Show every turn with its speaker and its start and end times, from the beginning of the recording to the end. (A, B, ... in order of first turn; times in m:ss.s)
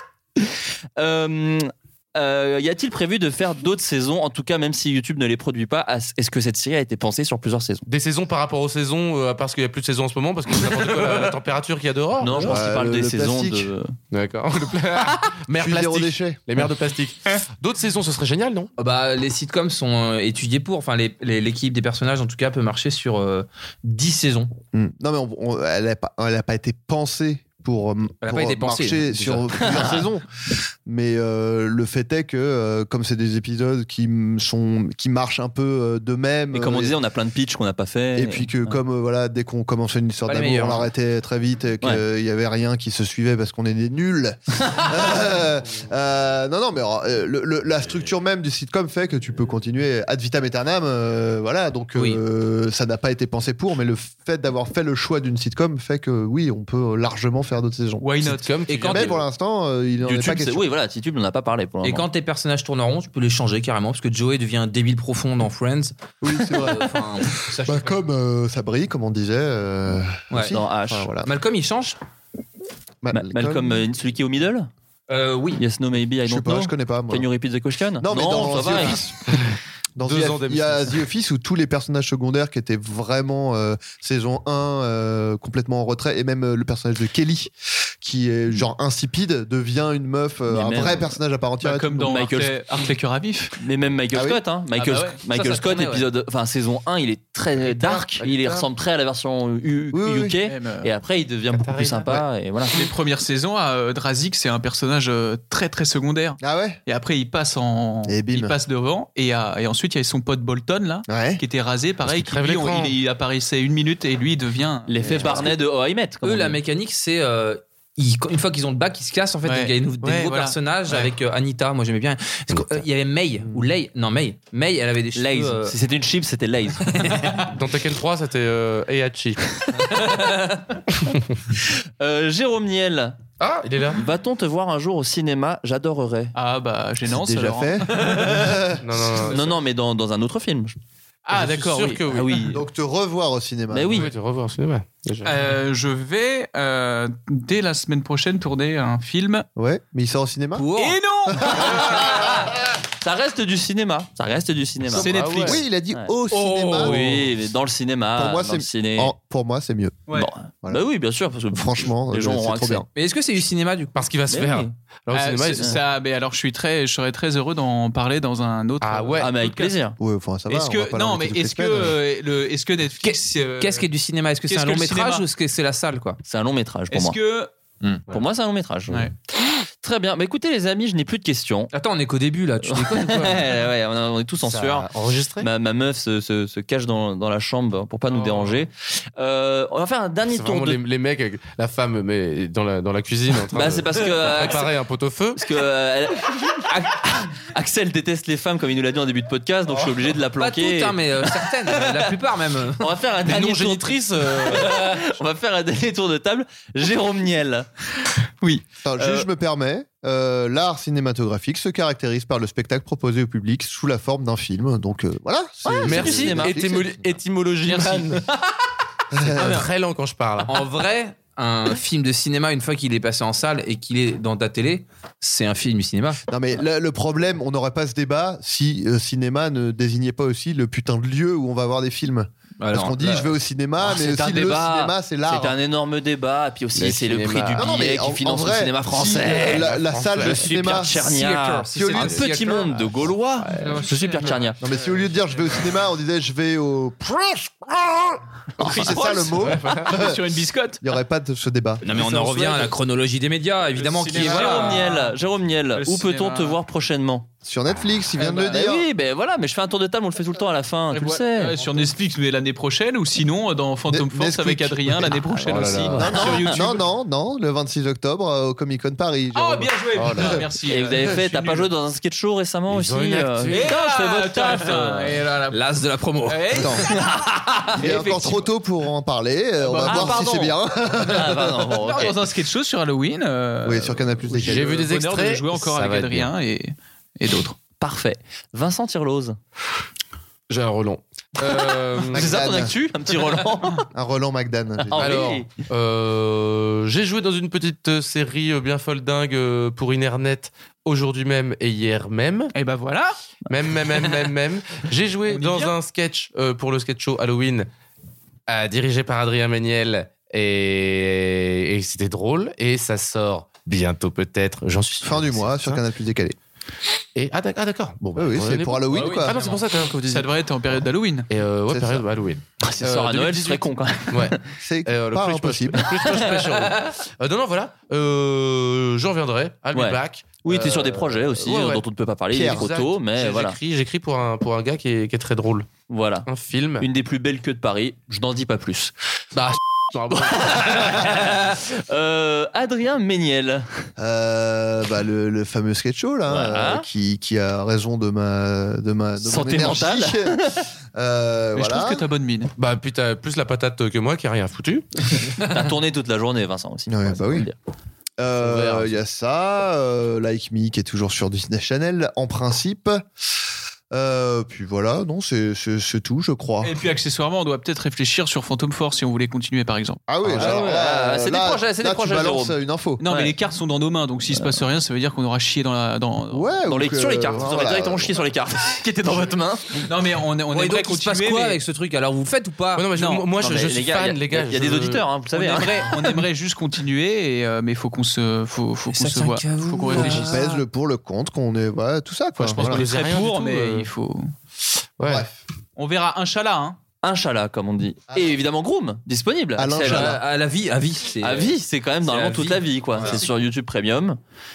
0:00.4-0:07.8 A
0:07.9-0:12.7 B
0:10.6-0:11.3 A
0:12.2-0:13.9 A
0:12.4-0:13.7 C
0:14.1-0:18.7 B
0:15.5-0:16.4 C
0:18.8-0:24.5 D
0:24.7-0:30.2 C
0:28.2-0:29.7 D
0:29.6-0:30.0 A
0:30.8-0:36.9 C
0:36.5-0:38.5 A
0:38.1-0:58.1 C
0:40.3-0:40.9 D
0:58.0-0:58.6 E
0:58.2-0:59.2 B
0:58.7-0:59.1 A
0:58.7-1:00.6 C
1:00.0-1:02.1 A
1:01.8-1:08.0 D
1:06.2-1:06.9 C
1:07.6-1:11.3 C
1:10.3-1:10.6 D
1:10.5-1:11.1 A
1:11.2-1:12.0 D
1:13.0-1:13.8 C
1:13.1-1:14.7 A
1:15.1-1:15.6 D
1:15.6-1:19.1 A
1:16.2-1:17.2 C
1:18.0-1:19.4 C
1:20.0-1:32.2 C
1:20.0-1:21.0 B
1:30.5-1:31.2 A
1:31.6-1:33.6 E
1:32.0-1:32.6 A
1:33.6-1:42.9 A
1:34.1-1:34.4 C
1:34.7-1:35.2 E
1:35.3-1:36.0 D
1:37.6-1:38.6 B
1:39.9-1:40.3 C
1:40.4-1:40.9 E
1:41.5-1:42.2 B
1:42.7-1:55.5 E
1:46.4-1:46.8 C
1:48.0-1:48.5 C
1:51.1-1:51.4 C
1:52.0-1:53.0 B
1:54.9-1:56.6 A
1:55.2-1:55.5 B
1:56.2-2:05.7 D
1:59.4-2:01.1 E
2:05.2-2:07.1 A
2:07.0-2:07.4 D
2:07.5-2:09.4 B
2:09.7-2:10.8 A
2:12.0-2:13.2 A
2:13.4-2:14.0 B
2:13.9-2:16.3 A
2:16.3-2:18.4 E
2:17.0-2:18.8 C
2:18.8-2:19.5 B
2:19.3-2:20.7 A
2:21.2-2:22.0 E
2:21.3-2:22.5 B
2:22.1-2:22.6 A
2:22.5-2:24.0 C
2:23.7-2:24.1 A
2:23.9-2:25.4 B
2:25.2-2:29.4 E
2:29.6-2:30.7 C
2:30.5-2:31.0 D
2:30.8-2:32.2 E
2:31.4-2:31.7 C
2:31.6-2:35.1 A
2:34.9-2:36.9 C
2:34.9-2:35.6 E
2:35.0-2:35.6 B
2:36.3-2:37.0 E
2:36.7-2:39.1 A
2:38.2-2:40.1 C
2:40.2-2:42.8 A
2:41.5-2:42.9 C
2:42.9-2:43.9 D
2:43.9-2:45.8 B
2:44.3-2:44.7 A
2:45.1-2:49.8 E
2:48.8-2:49.3 B
2:49.2-2:50.0 A
2:50.0-2:52.0 C
2:50.5-2:53.8 E
2:53.0-2:56.2 D
2:54.5-2:55.2 E
2:56.2-2:57.2 A
2:56.9-2:57.5 E
2:58.1-2:59.1 A
2:59.8-3:01.7 A
3:01.7-3:03.4 D
3:02.6-3:10.8 A
3:04.4-3:05.5 B
3:08.1-3:08.6 E
3:10.3-3:15.4 B
3:13.5-3:14.7 A
3:15.4-3:22.1 A
3:20.4-3:22.9 D
3:22.8-3:27.7 A
3:23.2-3:25.1 B
3:28.8-3:37.2 C
3:35.8-3:36.6 A
3:35.8-3:38.2 B
3:37.6-3:38.2 E
3:39.1-3:39.6 C
3:39.2-3:40.6 B
3:40.4-3:46.2 D
3:46.3-3:55.5 C
3:52.6-3:53.3 D
3:53.8-4:04.6 A
3:56.8-3:57.9 B
3:57.6-4:01.1 C
3:59.2-4:00.6 B
4:00.9-4:02.7 D
4:01.6-4:02.4 C
4:03.0-4:03.8 B
4:03.6-4:04.4 D
4:03.8-4:05.5 E
4:04.6-4:10.2 C
4:08.6-4:10.8 E
4:10.8-4:12.6 C
4:11.8-4:14.8 D
4:12.4-4:12.7 E
4:13.8-4:15.2 E
4:14.1-4:17.3 A
4:15.7-4:16.6 E
4:17.4-4:18.8 C
4:18.2-4:18.7 E
4:18.4-4:21.6 A
4:20.9-4:26.8 E
4:23.9-4:30.4 C
4:25.5-4:26.2 B
4:29.3-4:31.7 E
4:29.9-4:30.4 B
4:30.7-4:35.2 A
4:32.7-4:33.7 B
4:33.4-4:35.6 E
4:35.5-4:37.0 D
4:36.2-4:36.9 E
4:36.5-4:36.8 C
4:36.8-4:38.0 A
4:37.8-4:41.8 C
4:37.8-4:38.5 E
4:39.6-4:40.3 E
4:39.8-4:42.2 A
4:41.8-4:47.6 E
4:43.6-4:44.8 C
4:44.3-4:46.3 B
4:47.8-4:49.4 A
4:50.5-4:52.5 B
4:51.4-4:53.8 A
4:52.1-4:52.7 C
4:53.9-4:55.1 C
4:54.8-4:55.6 A
4:54.9-5:02.5 B
5:02.5-5:03.1 E
5:03.5-5:07.7 B
5:05.3-5:05.7 E
5:08.5-5:15.8 B
5:15.0-5:16.4 C
5:17.2-5:20.3 B
5:18.1-5:19.4 C
5:18.9-5:19.4 E
5:19.3-5:19.6 D
5:19.9-5:21.3 E
5:21.3-5:31.8 B
5:21.7-5:22.0 C
5:22.6-5:24.4 A
5:24.6-5:25.8 C
5:25.9-5:26.5 A
5:29.7-5:33.6 A
5:32.3-5:32.7 C
5:32.4-5:35.7 B
5:35.9-5:36.3 A
5:36.3-5:36.8 B
5:36.8-5:38.9 A
5:39.3-5:41.3 B
5:40.1-5:43.7 A
5:44.0-5:52.0 C
5:46.3-5:46.8 A
5:49.2-5:50.6 A
5:51.5-5:52.5 E
5:52.6-5:55.2 B
5:55.4-5:57.5 A
5:56.9-5:57.5 C
5:58.2-6:03.0 C
5:58.4-5:59.0 B
6:03.9-6:06.8 C
6:06.6-6:10.7 E
6:10.1-6:13.0 C
6:10.3-6:12.6 A
6:13.0-6:16.6 E
6:14.3-6:14.6 A
6:16.3-6:18.2 C
6:16.6-6:19.9 A
6:19.8-6:21.6 E
6:20.5-6:22.8 D
6:22.8-6:25.1 B
6:22.9-6:23.2 E
6:23.3-6:26.2 A
6:25.3-6:30.4 E
6:28.9-6:30.6 D
6:29.9-6:32.8 C
6:32.4-6:34.3 E
6:32.5-6:33.9 B
6:35.0-6:35.3 B
6:35.0-6:35.3 C
6:35.8-6:36.8 E
6:37.0-6:40.2 A
6:38.1-6:38.4 C
6:39.6-6:40.2 C
6:39.8-6:43.2 D
6:41.2-6:44.2 A